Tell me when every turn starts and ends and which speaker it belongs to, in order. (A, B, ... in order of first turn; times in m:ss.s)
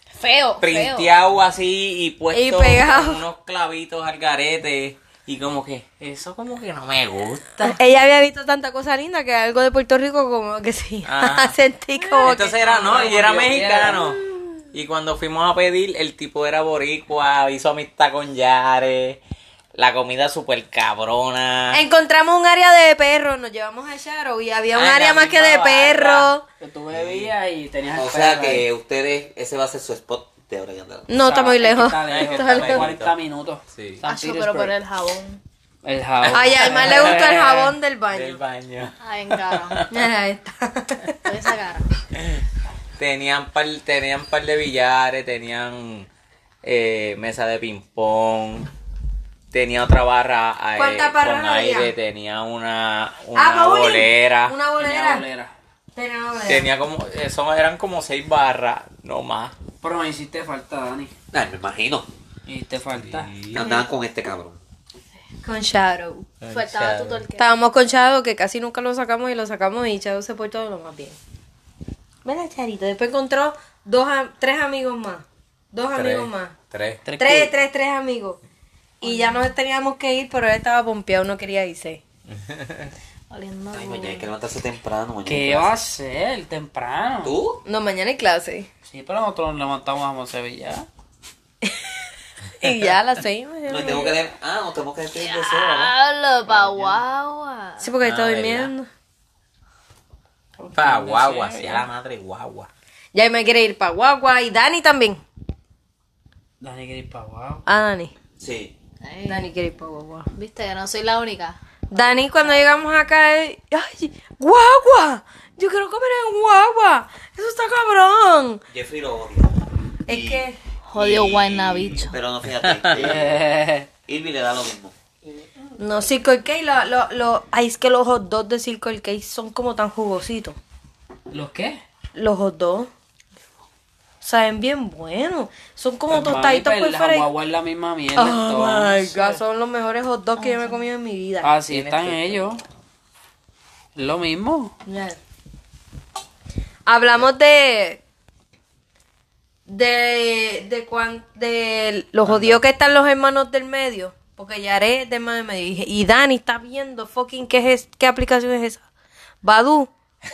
0:00.2-0:01.1 A
0:00.6-0:07.8 B
0:02.3-0:03.2 C
0:07.6-0:13.1 C
0:11.0-0:11.6 B
0:12.2-0:14.2 B
0:12.3-0:14.1 D
0:14.7-0:19.2 B
0:19.8-0:21.8 B
0:21.7-0:26.4 C
0:24.7-0:26.3 B
0:26.6-0:28.7 D
0:26.9-0:27.3 B
0:27.9-0:31.1 E
0:31.1-0:32.9 C
0:31.2-0:34.7 D
0:32.1-0:33.1 B
0:33.7-0:34.0 B
0:34.1-0:35.4 A
0:35.8-0:37.3 D
0:36.2-0:40.1 B
0:36.3-0:38.4 C
0:39.0-0:39.8 A
0:39.9-0:41.3 C
0:41.2-0:41.9 A
0:43.0-0:46.1 B
0:46.6-0:48.7 B
0:49.5-0:54.6 B
0:50.8-0:51.9 C
0:53.4-0:55.2 C
0:54.8-0:55.5 D
0:56.0-0:56.7 C
0:56.4-0:59.6 B
0:59.8-1:01.1 D
1:01.3-1:02.1 E
1:02.5-1:03.3 D
1:02.9-1:03.7 B
1:03.5-1:04.6 E
1:05.4-1:06.3 C
1:06.4-1:07.2 B
1:06.5-1:07.5 A
1:07.4-1:11.2 C
1:12.2-1:16.6 C
1:15.9-1:17.0 B
1:17.0-1:17.6 D
1:17.2-1:18.4 C
1:19.0-1:22.0 C
1:19.0-1:19.5 A
1:22.3-1:22.9 B
1:23.3-1:24.3 A
1:23.7-1:25.8 E
1:25.2-1:27.4 D
1:27.2-1:27.6 E
1:27.7-1:28.7 C
1:28.9-1:30.9 D
1:32.6-1:34.2 C
1:33.7-1:35.9 E
1:35.2-1:37.9 A
1:36.5-1:37.0 D
1:37.8-1:38.9 C
1:38.0-1:38.7 B
1:40.6-1:41.9 D
1:40.7-1:42.7 B
1:43.1-1:45.2 C
1:46.6-1:47.6 D
1:47.7-1:48.1 C
1:48.4-1:48.7 E
1:49.0-1:49.5 A
1:49.3-1:50.3 C
1:50.3-1:51.6 A
1:51.9-1:58.6 C
1:58.7-2:03.4 E
2:00.1-2:00.6 C
2:00.9-2:02.2 A
2:02.6-2:03.0 B
2:03.0-2:03.9 D
2:04.1-2:05.0 E
2:05.8-2:10.6 C
2:11.3-2:11.8 D
2:12.2-2:12.9 C
2:14.2-2:17.3 C
2:16.1-2:19.4 D
2:18.2-2:21.5 C
2:20.4-2:20.9 A
2:21.4-2:22.6 D
2:21.7-2:22.6 B
2:24.0-2:24.7 D
2:24.8-2:25.2 C
2:26.9-2:28.0 C
2:29.7-2:38.8 C
2:32.3-2:32.6 B
2:39.4-2:39.9 C